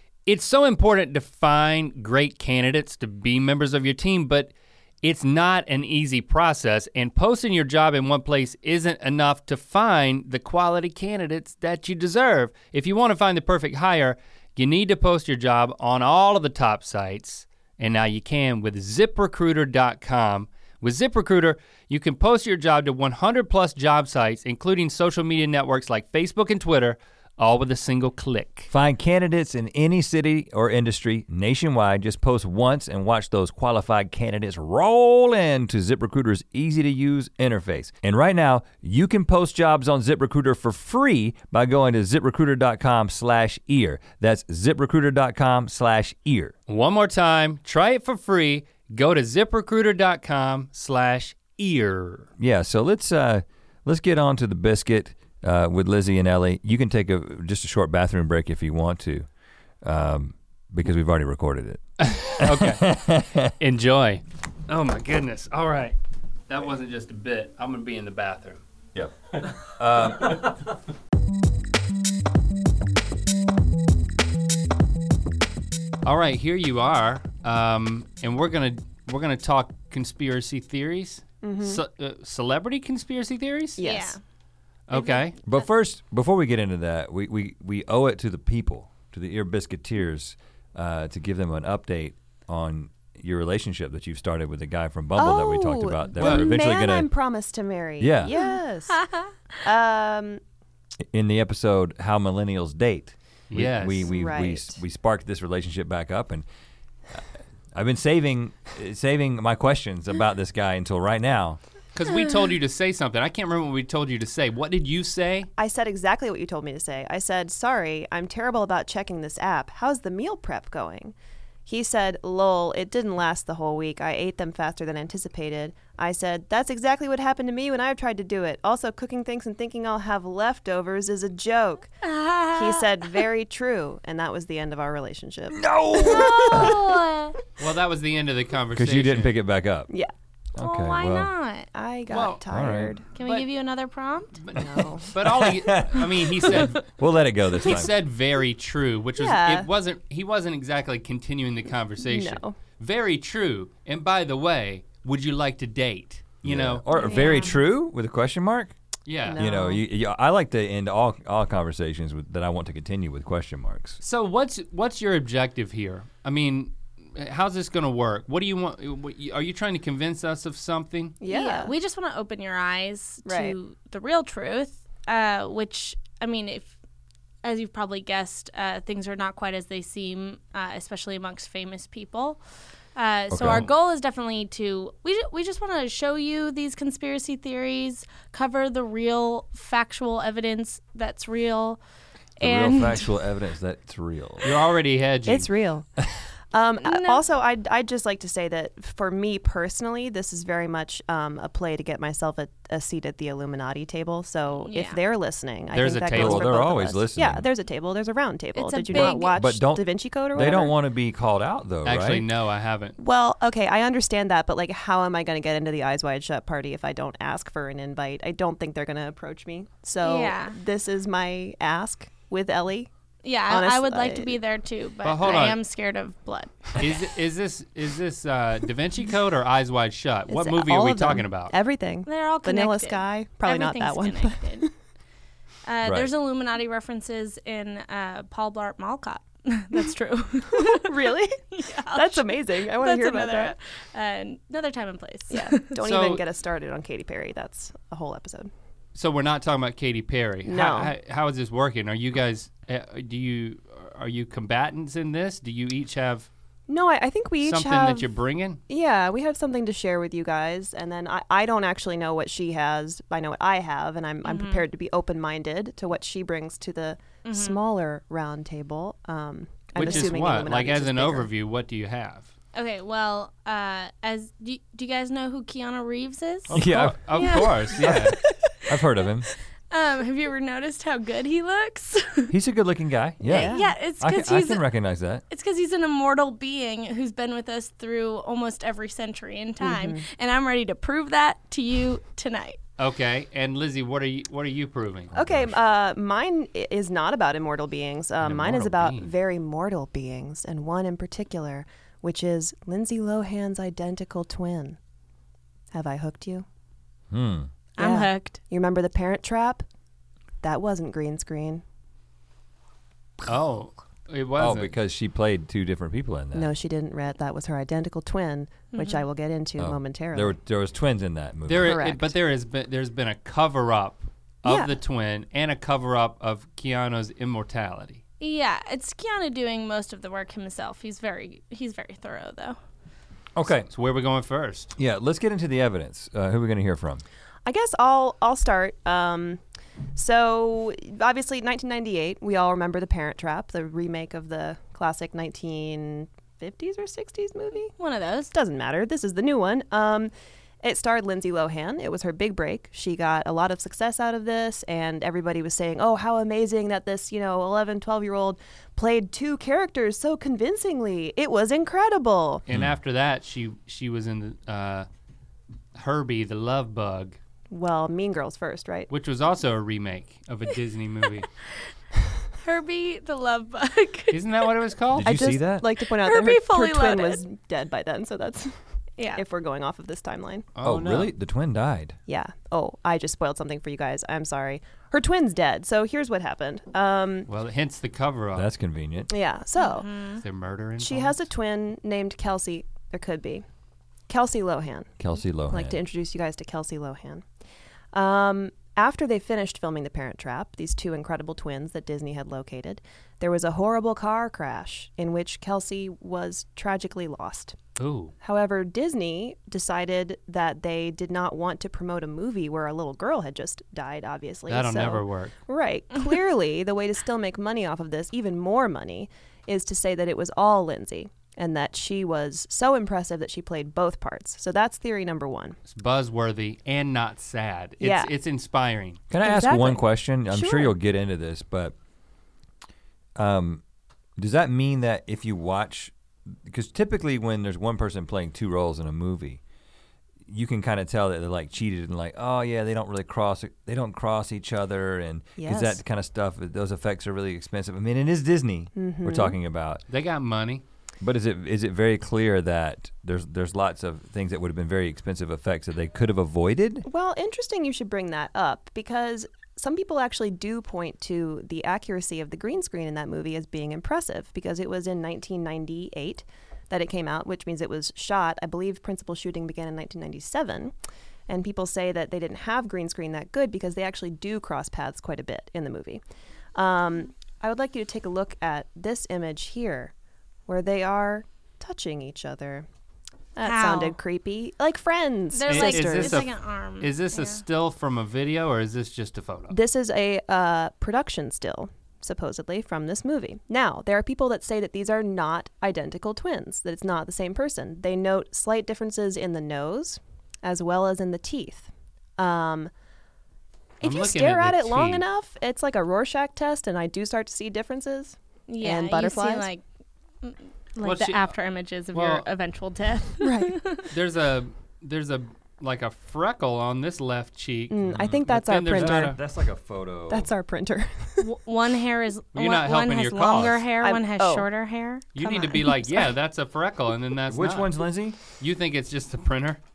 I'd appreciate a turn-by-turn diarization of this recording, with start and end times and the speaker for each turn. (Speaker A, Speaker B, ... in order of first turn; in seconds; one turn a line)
Speaker A: 0.2-28.7
Speaker B: 28.7-46.5
Speaker A: 46.7-52.3
Speaker B: 52.4-59.3
Speaker B: 59.8-63.5
Speaker A: 62.0-63.0
Speaker A: 63.6-66.0
Speaker A: 66.5-68.6
Speaker B: 68.9-70.5
Speaker A: 76.0-83.8
Speaker C: 81.4-81.8
Speaker C: 83.8-84.2
Speaker D: 83.8-84.2
Speaker A: 84.9-85.3
Speaker D: 84.9-85.2
Speaker B: 85.5-97.1
Speaker C: 95.2-99.1
Speaker A: 96.2-96.5
Speaker B: 98.0-98.3
Speaker D: 98.3-99.3
Speaker C: 99.6-100.4
Speaker B: 101.1-106.4
Speaker A: 103.5-104.1
Speaker C: 104.1-104.8
Speaker B: 107.1-111.6
Speaker A: 111.9-115.5
Speaker C: 115.6-121.1
Speaker C: 121.7-131.9
Speaker D: 132.0-133.2
Speaker C: 132.5-137.0
Speaker B: 135.5-136.8
Speaker D: 135.9-137.4
Speaker A: 137.6-139.3
Speaker B: 138.8-139.9
Speaker B: 140.5-141.3
Speaker D: 140.6-141.7
Speaker C: 141.7-143.0
Speaker A: 142.1-142.4
Speaker B: 142.5-143.0
Speaker D: 143.1-144.4
Speaker A: 143.2-143.5
Speaker A: 144.4-146.8
Speaker C: 144.5-145.1
Speaker B: 145.2-147.9
Speaker A: 147.6-156.8
Speaker C: 149.2-149.7
Speaker C: 152.0-152.6
Speaker B: 156.4-158.7
Speaker D: 156.9-157.6
Speaker C: 156.9-157.4
Speaker A: 159.1-159.4
Speaker C: 159.2-159.8
Speaker B: 159.3-164.0
Speaker A: 164.0-171.2
Speaker C: 171.2-171.7
Speaker D: 171.3-176.7
Speaker C: 173.2-173.5
Speaker D: 177.4-182.4
Speaker D: 182.9-191.8
Speaker B: 183.3-183.7
Speaker D: 192.4-193.1
Speaker B: 192.4-194.5
Speaker A: 194.4-195.5
Speaker C: 195.2-195.9
Speaker C: 196.5-210.7
Speaker D: 196.8-197.2
Speaker D: 204.6-205.0
Speaker A: 205.7-206.5
Speaker B: 206.1-207.4
Speaker D: 208.5-209.4
Speaker B: 208.9-212.2
Speaker A: 211.8-212.9
Speaker C: 213.0-222.9
Speaker D: 220.0-220.6
Speaker D: 223.2-227.1
Speaker C: 223.5-224.3
Speaker A: 225.0-225.6
Speaker A: 226.8-231.5
Speaker C: 230.3-234.7
Speaker D: 232.1-234.7
Speaker D: 235.7-245.8
Speaker B: 235.8-236.1
Speaker C: 240.5-243.5
Speaker C: 245.3-248.5
Speaker A: 245.8-246.2
Speaker A: 248.9-256.3
Speaker C: 250.4-250.9
Speaker C: 256.7-258.1
Speaker A: 257.4-258.6
Speaker C: 258.7-271.3
Speaker D: 264.2-264.6
Speaker D: 267.2-267.6
Speaker A: 269.7-272.3
Speaker D: 269.8-270.1
Speaker D: 272.5-278.8
Speaker A: 276.5-278.1
Speaker B: 276.5-279.3
Speaker D: 279.7-282.3
Speaker B: 282.3-285.2
Speaker C: 283.2-283.7
Speaker D: 283.2-284.6
Speaker D: 285.3-292.6
Speaker C: 289.6-290.0
Speaker A: 292.8-295.1
Speaker B: 295.1-295.5
Speaker C: 295.1-304.8
Speaker A: 298.2-299.1
Speaker C: 305.7-306.4
Speaker B: 307.1-307.5
Speaker D: 307.8-308.4
Speaker C: 307.8-309.6
Speaker C: 310.4-311.6
Speaker A: 313.2-314.7
Speaker B: 314.4-316.5
Speaker C: 316.3-320.3
Speaker D: 318.7-319.0
Speaker B: 319.6-321.8
Speaker A: 321.5-328.0
Speaker C: 321.6-322.1
Speaker C: 324.4-324.7
Speaker D: 328.2-332.6
Speaker B: 333.4-333.7
Speaker A: 333.7-334.7
Speaker B: 334.8-337.0
Speaker C: 337.4-339.4
Speaker C: 339.9-347.7
Speaker D: 347.8-348.3
Speaker C: 348.3-362.4
Speaker A: 362.5-364.9
Speaker A: 365.7-367.2
Speaker C: 367.5-368.9
Speaker A: 368.9-371.3
Speaker D: 372.4-374.5
Speaker A: 374.1-375.2
Speaker B: 374.9-375.6
Speaker C: 375.0-378.6
Speaker D: 375.8-377.2
Speaker D: 379.0-379.2
Speaker C: 379.1-380.5
Speaker A: 380.5-381.1
Speaker B: 380.6-382.0
Speaker C: 382.1-387.3
Speaker A: 387.3-388.5
Speaker B: 388.4-389.1
Speaker C: 389.1-389.9
Speaker D: 389.6-390.2
Speaker A: 390.2-391.2
Speaker C: 390.8-393.4
Speaker C: 394.1-394.9
Speaker B: 395.0-395.8
Speaker C: 395.5-397.2
Speaker C: 397.9-407.6
Speaker A: 407.8-408.1
Speaker C: 408.2-425.6
Speaker A: 414.5-415.3
Speaker A: 425.7-429.0
Speaker C: 427.8-428.1
Speaker B: 429.1-431.7
Speaker C: 429.2-430.7
Speaker B: 433.1-433.6
Speaker B: 434.2-439.4
Speaker B: 440.3-449.8
Speaker C: 445.4-445.8
Speaker C: 448.7-449.4
Speaker A: 449.9-450.6
Speaker B: 451.0-456.9
Speaker C: 456.8-470.7
Speaker C: 471.3-476.0
Speaker C: 476.5-479.9
Speaker C: 480.5-482.7
Speaker C: 483.4-486.3
Speaker D: 483.4-483.9
Speaker D: 485.3-487.4
Speaker A: 485.5-489.6
Speaker C: 489.5-502.7
Speaker C: 503.8-509.5
Speaker A: 503.8-505.1
Speaker D: 508.5-509.6
Speaker D: 510.2-513.9
Speaker A: 510.8-511.3
Speaker A: 511.9-512.3
Speaker C: 513.2-513.6
Speaker A: 513.8-519.2
Speaker C: 517.7-519.2
Speaker B: 517.9-518.2
Speaker B: 518.7-520.3
Speaker C: 520.1-521.3
Speaker D: 521.2-526.1
Speaker A: 522.3-523.6
Speaker C: 523.8-524.5
Speaker A: 525.1-529.6
Speaker B: 527.3-528.2